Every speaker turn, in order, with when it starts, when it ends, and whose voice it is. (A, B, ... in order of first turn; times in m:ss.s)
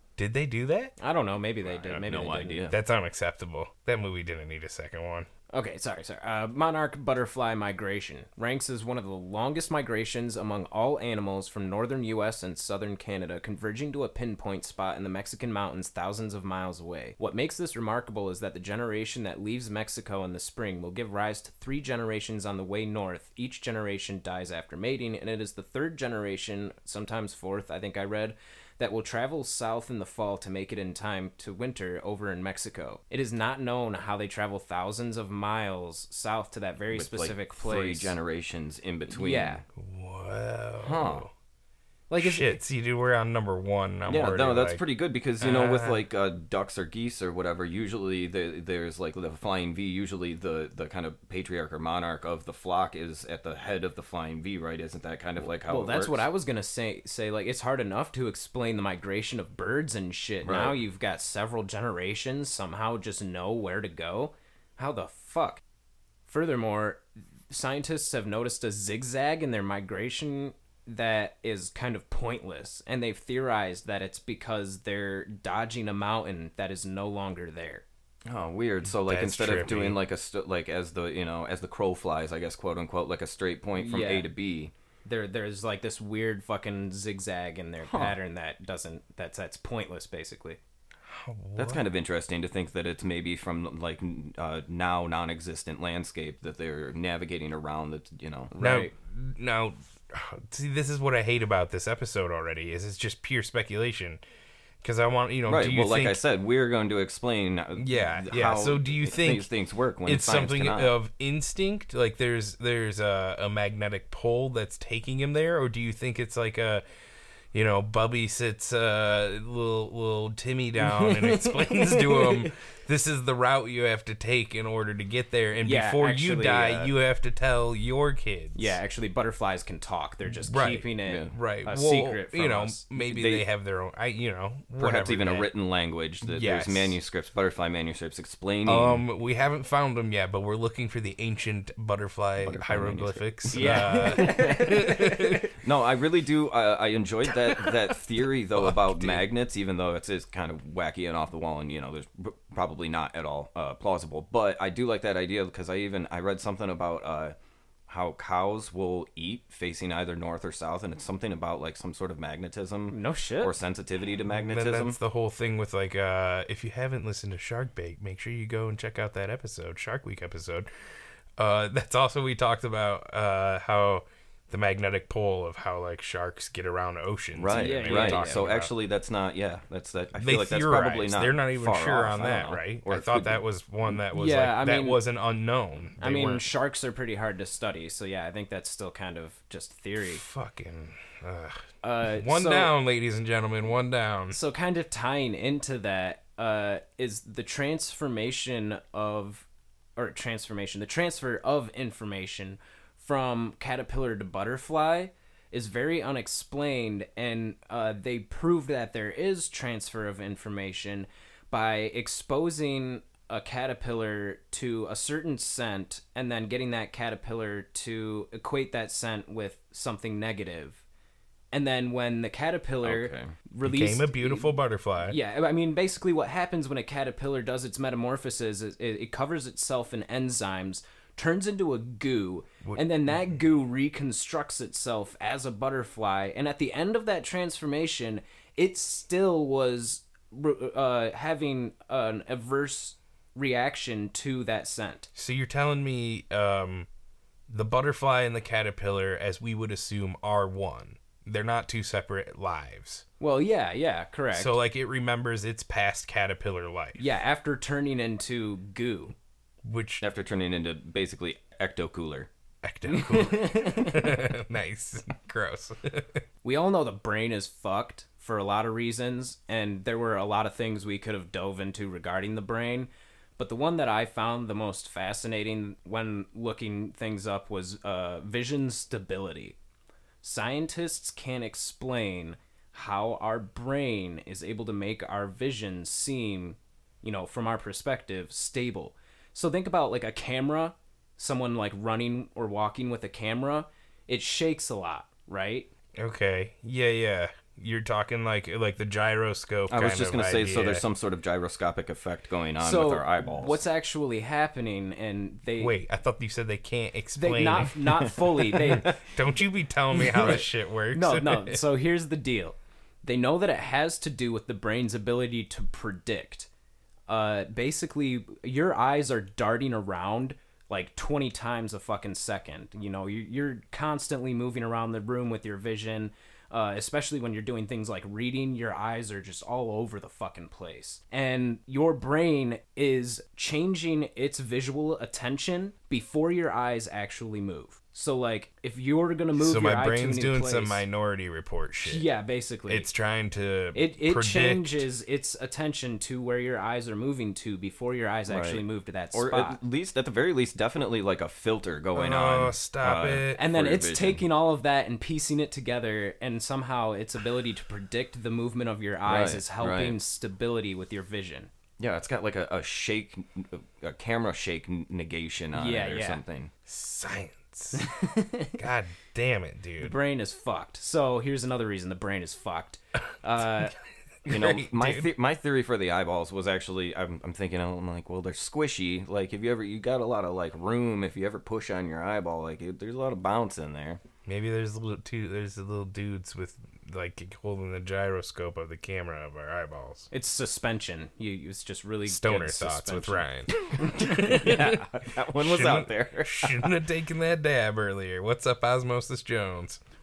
0:00.2-0:00.9 A
0:01.0-0:02.6 B
0:01.6-0:02.8 C
0:02.7-0:05.3 A
0:05.5-0:38.1 B
0:36.9-0:39.6 C
0:39.1-0:39.6 B
0:39.8-0:41.3 A
0:40.8-0:41.2 C
0:42.1-0:42.6 B
0:42.2-0:44.8 A
0:44.1-0:56.2 C
0:45.4-0:46.0 A
0:55.7-1:05.6 B
1:00.4-1:00.8 C
1:06.3-1:17.8 B
1:18.3-1:24.7 C
1:18.9-1:20.0 A
1:23.8-1:24.3 B
1:25.0-1:30.6 B
1:27.8-1:28.2 C
1:31.1-1:31.8 A
1:31.6-1:38.5 C
1:38.5-1:38.9 B
1:38.6-1:44.2 A
1:44.8-1:46.2 A
1:45.5-1:50.9 C
1:47.8-1:49.5 A
1:50.0-1:56.8 A
1:57.5-2:08.7 A
2:00.8-2:02.5 B
2:05.6-2:06.9 B
2:08.5-2:12.8 B
2:10.3-2:15.5 A
2:11.0-2:11.4 C
2:13.0-2:13.4 C
2:14.8-2:19.0 C
2:16.2-2:17.0 A
2:18.6-2:25.5 A
2:22.4-2:37.3 C
2:23.5-2:25.1 B
2:27.3-2:27.9 A
2:28.5-2:29.2 A
2:37.9-2:45.0 C
2:42.9-2:43.5 B
2:44.3-2:50.7 A
2:51.4-2:58.7 A
2:57.4-3:03.4 C
2:57.5-2:58.5 B
3:00.2-3:06.4 A
3:04.1-3:05.0 B
3:06.0-3:10.2 B
3:10.0-3:14.4 A
3:11.8-3:12.7 B
3:14.3-3:40.8 B
3:41.5-4:05.1 B
3:42.8-3:43.3 C
3:43.6-3:45.2 A
3:52.6-3:53.2 A
4:05.1-4:06.9 A
4:07.5-4:13.0 A
4:13.2-4:14.6 B
4:14.3-4:17.0 A
4:17.0-4:19.1 B
4:19.6-4:20.0 A
4:20.0-4:22.3 C
4:22.6-4:26.2 A
4:22.9-4:24.1 B
4:26.4-4:39.6 B
4:40.2-4:55.7 B
4:56.0-5:00.8 A
4:59.7-5:03.6 C
5:02.6-5:05.8 B
5:05.6-5:07.9 A
5:07.2-5:09.0 B
5:08.5-5:09.0 C
5:08.6-5:11.6 A
5:09.9-5:16.5 B
5:10.1-5:10.4 C
5:17.1-5:40.8 B
5:39.4-5:42.0 A
5:41.8-5:42.9 B
5:42.7-5:44.9 A
5:43.7-5:49.6 B
5:48.3-5:54.2 C
5:51.9-5:53.4 A
5:53.4-6:01.5 B
5:59.1-6:00.0 C
6:01.8-6:06.5 C
6:05.5-6:06.2 B
6:06.6-6:07.8 A
6:07.7-6:08.6 B
6:08.6-6:09.9 A
6:09.8-6:13.7 B
6:14.2-6:15.1 A
6:14.2-6:24.0 C
6:24.2-6:30.1 A
6:30.1-6:34.3 B
6:32.1-6:39.8 A
6:33.6-6:36.7 C